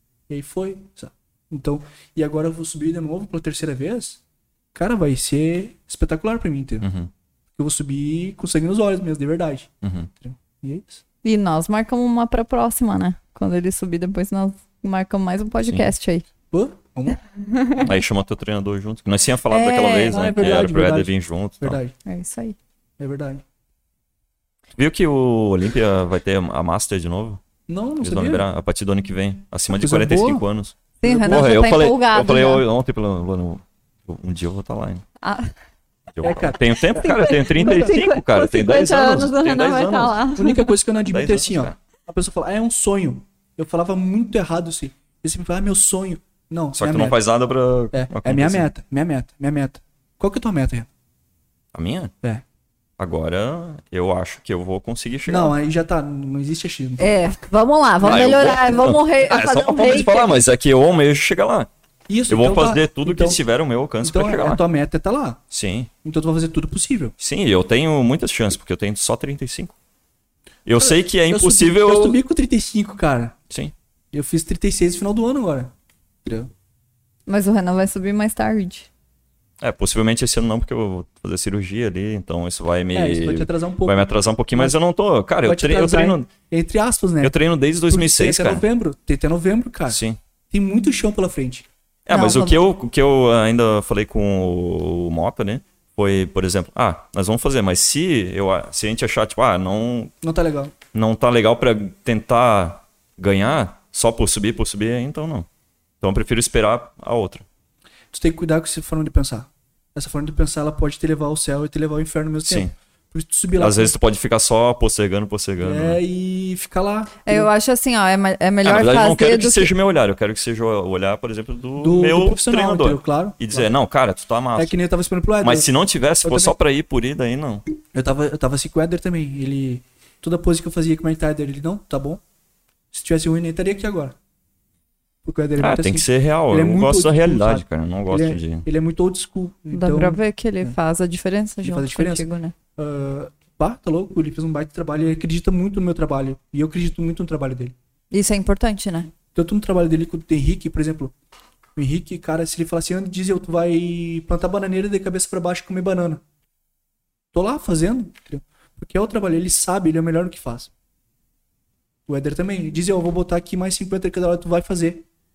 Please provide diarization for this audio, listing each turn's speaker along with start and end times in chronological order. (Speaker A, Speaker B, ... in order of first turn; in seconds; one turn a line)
Speaker A: 0.3-4.2
Speaker A: 4.7-6.9
Speaker B: 6.8-7.1
Speaker A: 7.5-11.0
Speaker B: 9.8-10.1
Speaker C: 11.2-16.2
Speaker A: 16.5-17.2
Speaker C: 17.3-17.9
Speaker B: 17.8-21.8
Speaker C: 19.5-20.4
Speaker A: 20.1-21.9
Speaker C: 22.0-22.6
Speaker A: 23.0-23.4
Speaker B: 24.8-27.4
Speaker A: 27.7-28.4
Speaker B: 28.0-35.0
Speaker A: 29.7-30.4
Speaker C: 31.0-32.6
Speaker A: 31.0-31.5
Speaker C: 35.2-35.5
Speaker B: 36.1-40.3
Speaker A: 36.2-38.0
Speaker C: 36.9-40.7
Speaker A: 40.4-47.2
Speaker B: 41.1-41.8
Speaker B: 46.8-48.7
Speaker A: 47.9-50.9
Speaker B: 51.7-52.1
Speaker B: 53.0-55.5
Speaker A: 55.3-57.2
Speaker C: 57.0-60.3
Speaker B: 58.0-61.7
Speaker A: 62.1-63.4
Speaker B: 62.3-64.6
Speaker A: 64.0-65.4
Speaker B: 65.5-65.9
Speaker A: 66.0-67.1
Speaker B: 67.2-69.7
Speaker B: 70.7-72.2
Speaker A: 70.8-73.4
Speaker A: 74.1-75.7
Speaker A: 76.2-76.5
Speaker C: 77.3-78.9
Speaker B: 79.6-86.3
Speaker A: 82.9-84.8
Speaker A: 85.4-87.3
Speaker B: 87.2-88.6
Speaker A: 87.9-90.0
Speaker B: 89.9-90.2
Speaker A: 90.5-91.7
Speaker B: 92.0-100.1
Speaker C: 92.1-92.6
Speaker A: 100.2-100.7
Speaker B: 100.9-105.5
Speaker B: 106.0-107.4
Speaker A: 108.1-114.0
Speaker B: 112.5-112.7
Speaker B: 113.5-116.0
Speaker A: 115.6-117.5
Speaker C: 117.2-119.7
Speaker B: 118.6-124.7
Speaker A: 121.8-123.7
Speaker A: 124.5-125.7
Speaker B: 125.4-127.6
Speaker A: 126.2-126.5
Speaker A: 127.9-132.2
Speaker A: 132.9-134.2
Speaker A: 135.2-140.7
Speaker B: 135.6-138.7
Speaker C: 139.7-142.5
Speaker A: 141.6-147.7
Speaker C: 148.1-149.1
Speaker A: 149.3-151.1
Speaker A: 151.7-156.2
Speaker A: 157.3-160.7
Speaker A: 162.1-165.1